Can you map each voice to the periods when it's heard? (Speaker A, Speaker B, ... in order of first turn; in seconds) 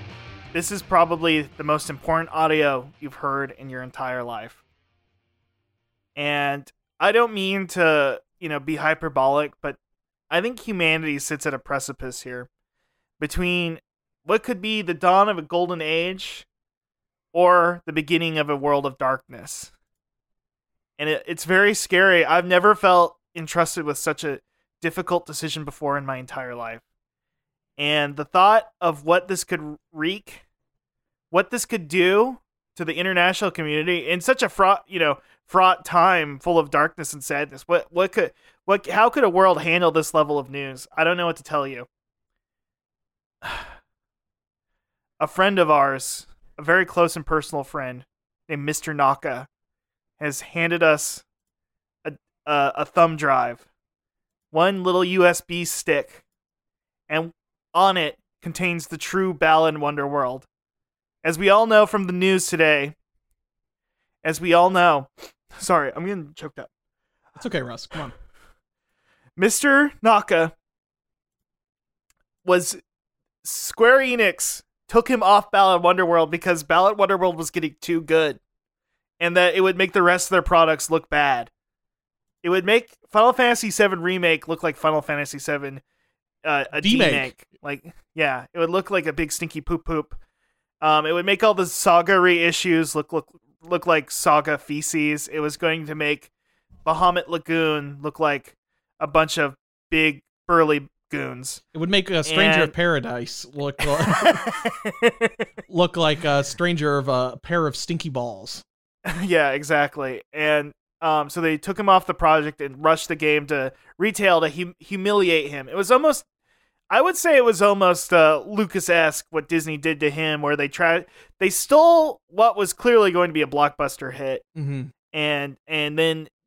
Speaker A: 0.5-4.6, 6.2-9.8, 10.3-12.5, 13.2-16.4, 17.3-19.7, 21.0-26.8, 27.8-30.4, 31.3-41.9, 43.4-43.7, 45.2-49.5, 50.2-51.2, 52.0-53.6, 54.5-56.2, 57.1-60.5, 61.2-62.9, 64.2-66.7, 69.4-70.5, 72.4-72.8, 73.4-78.4, 79.2-81.5, 82.4-85.8, 86.4-90.2, 90.8-96.3, 96.8-101.6, 102.2-102.7, 104.1-105.5, 109.1-116.2, 116.9-124.4, 125.1-126.3
Speaker B: 67.3-68.1, 86.8-87.3, 101.7-104.4, 105.7-108.6, 124.5-124.9